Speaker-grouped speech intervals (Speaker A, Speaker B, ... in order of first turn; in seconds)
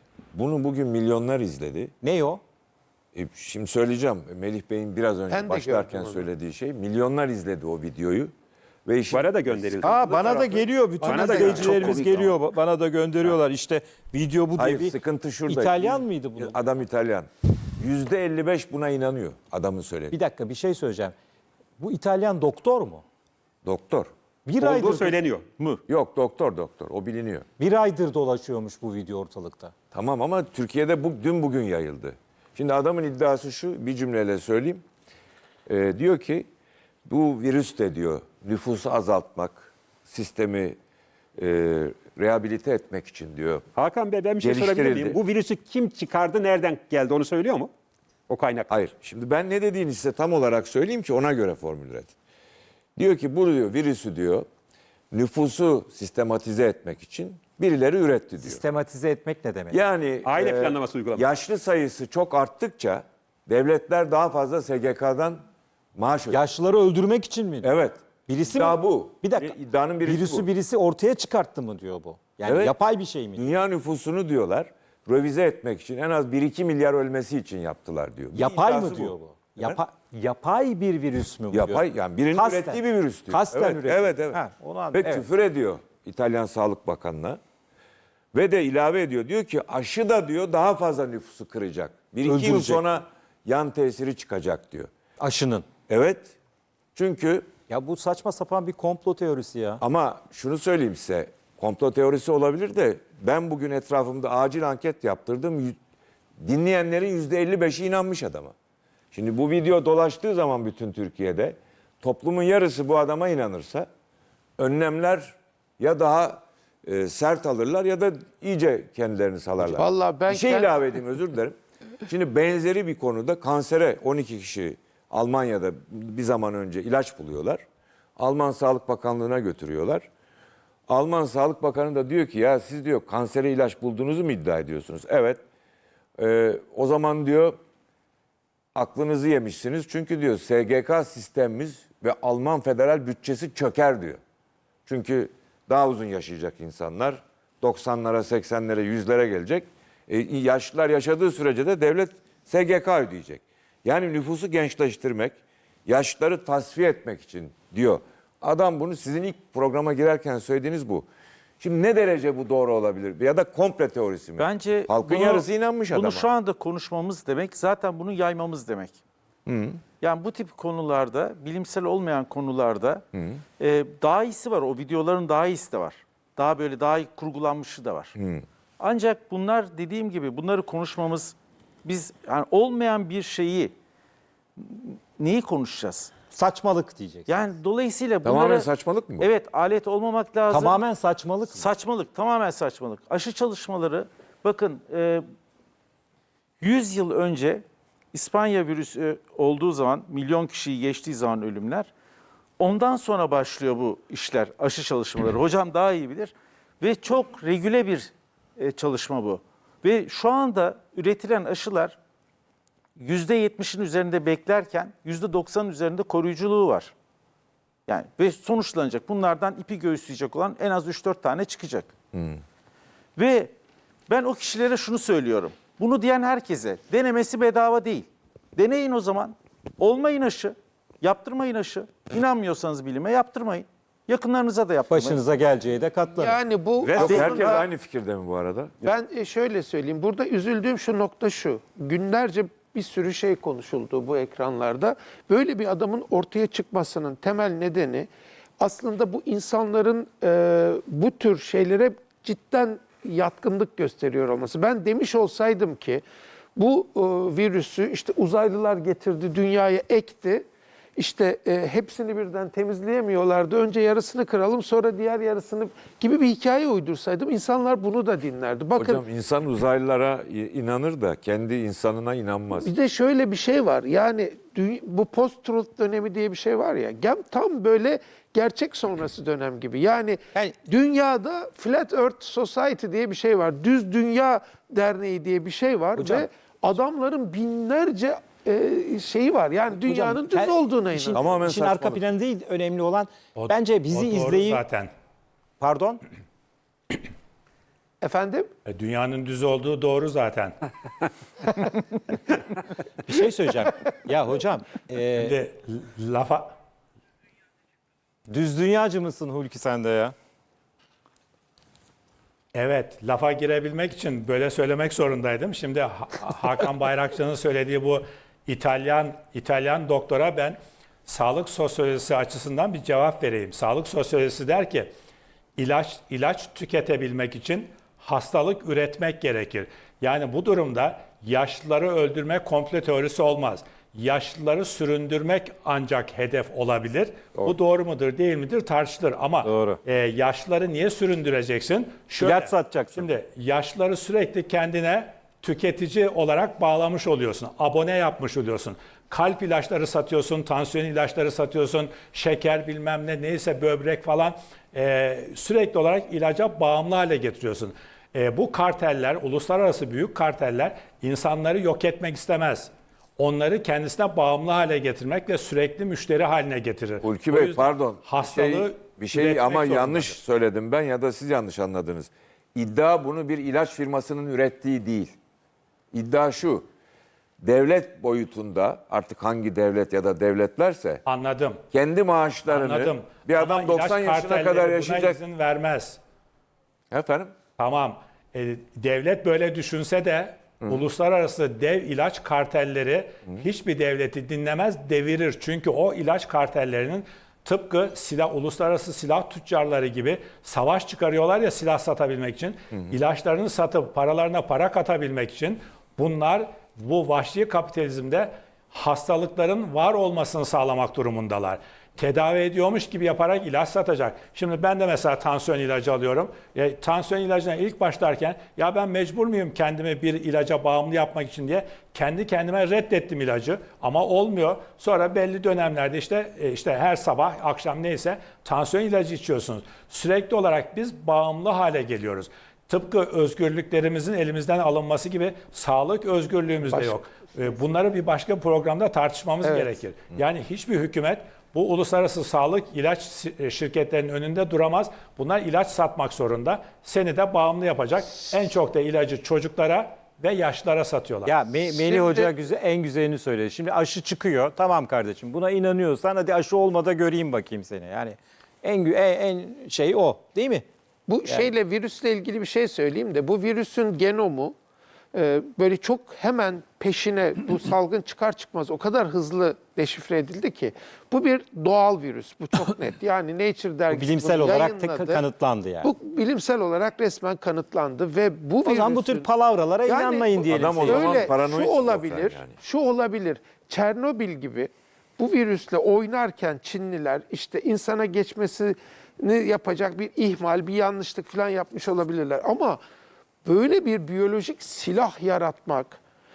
Speaker A: 0.3-1.9, 3.1-8.3, 8.8-10.4, 11.1-12.0, 14.6-20.1, 23.6-24.1, 25.9-27.5, 29.9-34.8, 35.7-36.5, 37.1-40.8, 41.4-43.6, 44.4-45.2, 48.7-52.1, 53.0-54.5, 55.1-58.6, 59.7-65.4, 66.0-66.4, 67.6-70.5, 72.4-72.8, 73.3-79.8, 81.5-84.4, 84.9-87.4, 88.3-94.9, 95.9-96.4, 97.0-97.5, 99.8-105.8, 106.4-108.5, 109.1-113.9, 114.6-121.6, 122.1-127.6, 128.2-130.1, 130.9-135.4, 136.2-137.6, 138.8-144.2, 144.9-161.1, 161.6-166.3, 169.5-169.8, 173.1-173.4, 178.2-178.4, 188.2-189.3, 222.1-222.4, 236.9-238.8, 268.8-272.7, 291.1-292.0, 367.0-375.1, 375.9-376.6, 377.4-381.0, 381.7-385.2, 386.9-387.3, 480.5-482.6
Speaker B: 2.0-2.4, 9.8-16.8, 20.1-21.1, 21.8-23.0, 24.5-25.2, 27.6-29.7, 58.4-59.8, 66.3-67.7, 68.2-73.5, 78.3-85.3, 92.2-92.8, 95.2-95.7, 97.7-99.8, 186.3-187.3, 190.5-191.7, 234.9-236.4, 286.0-286.3, 289.7-294.6, 295.6-296.0, 303.1-305.4, 308.3-310.1, 339.4-339.8, 342.2-343.1, 451.3-460.6, 461.2-461.5, 473.9-475.9, 478.6-481.3
Speaker C: 5.3-6.3, 11.1-12.0, 119.6-120.8, 236.2-237.7, 238.8-248.1, 248.6-256.0, 256.6-260.4, 261.0-269.0, 272.6-291.3, 298.0-298.5, 436.6-437.5, 439.4-439.8, 451.7-452.3, 461.1-464.5, 465.1-475.2, 475.8-479.3, 479.9-492.8, 493.4-496.0
Speaker D: 9.1-12.3, 24.6-25.5, 43.8-47.7, 48.3-48.7, 60.2-61.2
Speaker E: 164.4-169.0, 170.0-173.0, 173.6-178.2, 178.8-183.7, 184.6-186.1, 187.3-188.7, 189.2-190.8, 191.5-195.2, 196.6-201.9, 202.6-212.0, 213.0-216.9, 217.9-221.9, 223.2-223.5, 224.1-235.2
Speaker F: 293.4-294.9, 298.7-300.6, 305.2-306.5, 312.5-324.9, 325.6-370.2, 381.1-381.6, 382.5-386.0, 387.6-451.3